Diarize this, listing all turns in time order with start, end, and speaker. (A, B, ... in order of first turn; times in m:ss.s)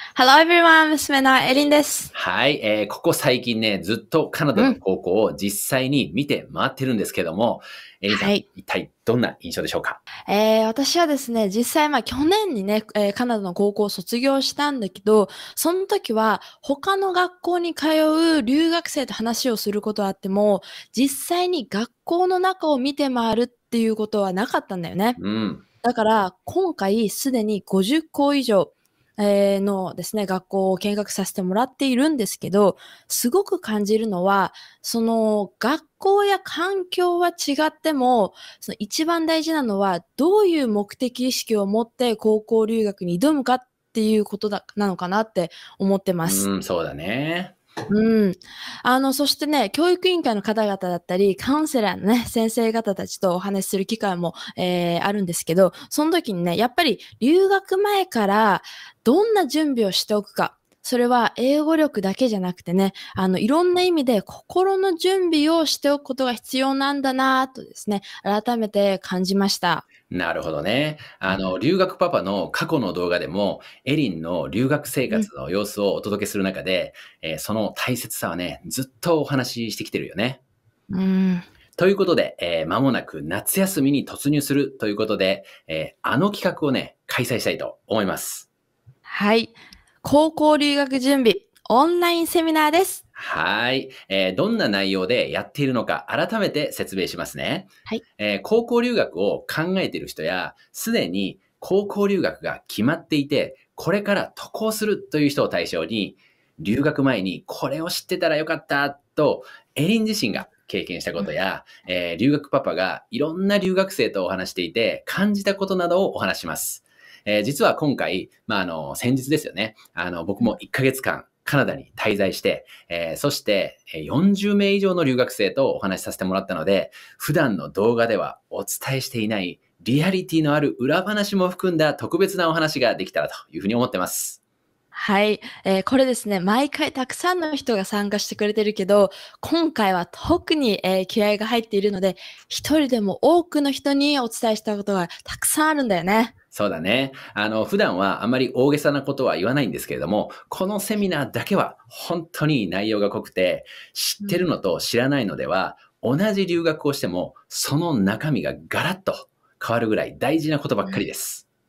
0:00.1-0:02.1 A
0:02.1-0:10.0 B
0:08.1-0:08.4 A
0:10.3-0:25.2 A
0:25.2-0:25.6 B
0:25.8-0:46.5 A
0:46.2-0:47.5 B
0:47.9-1:09.9 A
1:10.1-1:20.4 B
1:20.9-1:21.5 A
1:21.8-1:28.5 B
1:29.1-1:33.0 A
1:33.1-2:14.4 B
2:14.9-2:26.3 A
2:26.5-2:41.4 B
2:34.2-2:34.4 A